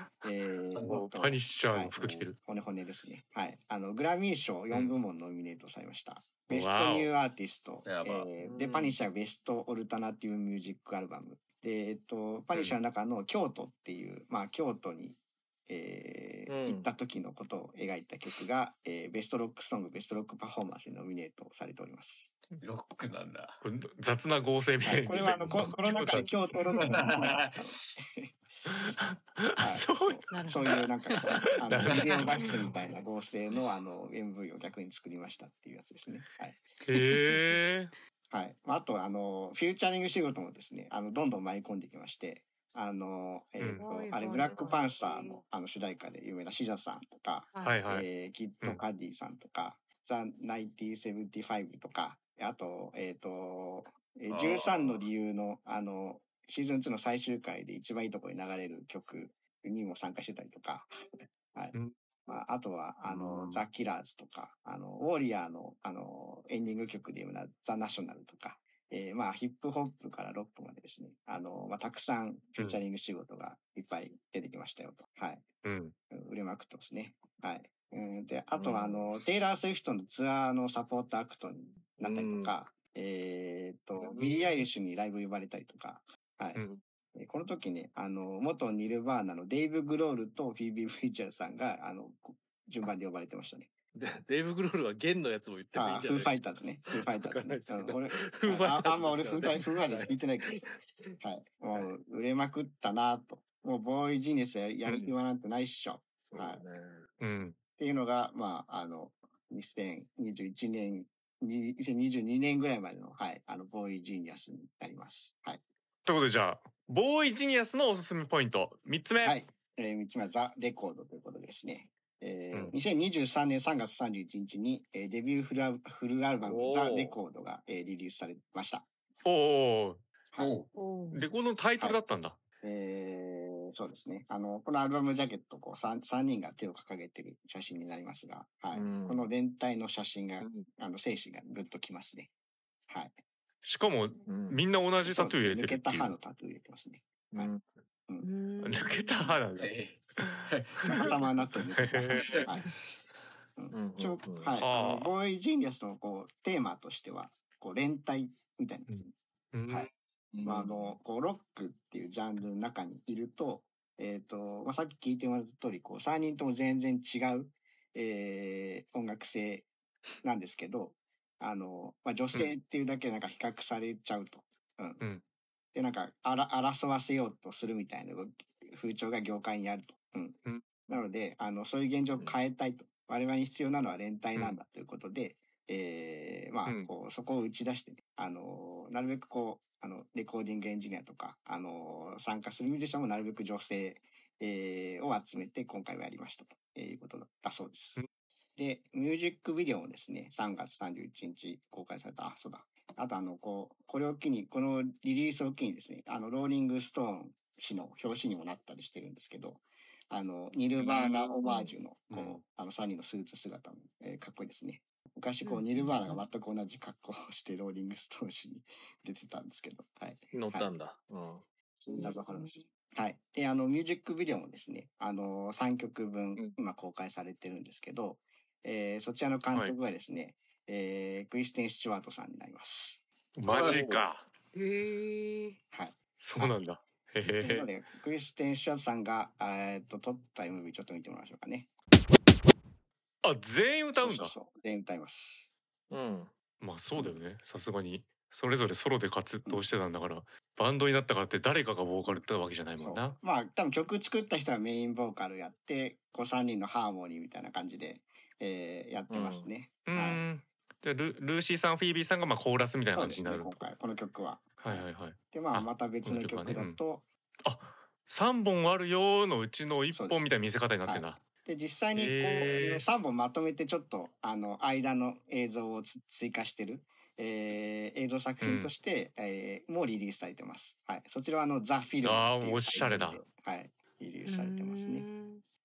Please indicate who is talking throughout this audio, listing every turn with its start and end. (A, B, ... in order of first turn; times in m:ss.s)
0:00.2-0:22.3 A
0:00.8-0:02.4 B
0:06.5-0:07.1 B
0:07.8-0:08.3 C
0:08.4-0:09.0 D
0:16.5-0:16.9 D
0:22.6-0:23.6 C
0:23.6-0:26.3 B
0:24.8-0:28.4 A
0:26.8-0:27.6 C
0:28.7-0:30.8 B
0:29.6-0:36.6 A
0:30.3-0:30.8 E
0:31.7-0:32.7 B
0:36.8-0:37.9 B
0:37.2-0:37.6 E
0:38.3-1:00.9 A
0:43.8-0:45.4 E
0:47.5-0:47.8 E
0:47.6-0:48.1 B
0:54.3-0:55.0 C
1:02.3-1:15.5 A
1:15.6-1:16.0 B
1:16.1-1:26.6 A
1:18.6-1:19.1 D
1:22.0-1:22.5 D
1:24.0-1:24.6 D
1:27.2-1:33.7 A
1:33.9-1:36.4 D
1:35.8-1:46.6 A
1:36.9-1:40.8 D
1:46.2-1:47.1 D
1:47.2-1:47.6 B
1:47.8-1:55.6 A
1:56.0-1:59.4 B
1:59.2-2:08.9 A
2:06.4-2:07.2 D
2:09.2-2:10.0 B
2:10.4-2:10.7 C
2:10.7-2:11.3 E
2:11.1-2:12.4 B
2:12.6-2:22.3 A
2:18.7-2:19.3 D
2:22.9-2:23.2 A
2:23.6-2:26.2 B
2:24.3-2:24.6 D
2:25.0-2:27.5 A
2:27.3-2:27.8 D
2:28.2-2:29.4 E
2:28.6-2:29.7 B
2:29.6-2:30.9 C
2:30.2-2:31.1 B
2:30.9-2:31.7 E
2:30.9-2:32.8 A
2:31.8-2:32.4 B
2:33.6-2:39.1 A
2:33.7-2:34.6 D
2:34.6-2:35.1 B
2:38.9-2:39.9 B
2:40.3-2:40.7 D
2:40.4-2:49.7 A
2:50.2-2:55.0 A
2:55.7-3:18.0 A
3:18.6-3:40.8 A
3:30.8-3:31.7 D
3:35.4-3:36.2 E
3:40.3-3:41.4 D
3:41.8-3:53.0 A
3:41.9-3:42.5 E
3:53.4-3:54.3 B
3:53.5-3:54.0 D
3:54.5-3:55.6 E
3:55.7-3:56.6 A
3:56.2-3:57.7 B
3:57.4-4:01.7 A
4:03.2-4:04.4 B
4:03.9-4:05.5 A
4:05.9-4:06.3 D
4:06.6-4:13.2 B
4:12.8-4:20.2 A
4:19.1-4:19.5 D
4:19.9-4:23.7 B
4:22.9-4:27.1 A
4:24.6-4:26.8 B
4:27.4-4:31.2 B
4:29.9-4:30.3 A
4:30.8-4:45.1 A
4:32.0-4:32.8 B
4:38.4-4:38.7 B
4:42.0-4:43.2 B
4:44.3-4:45.4 E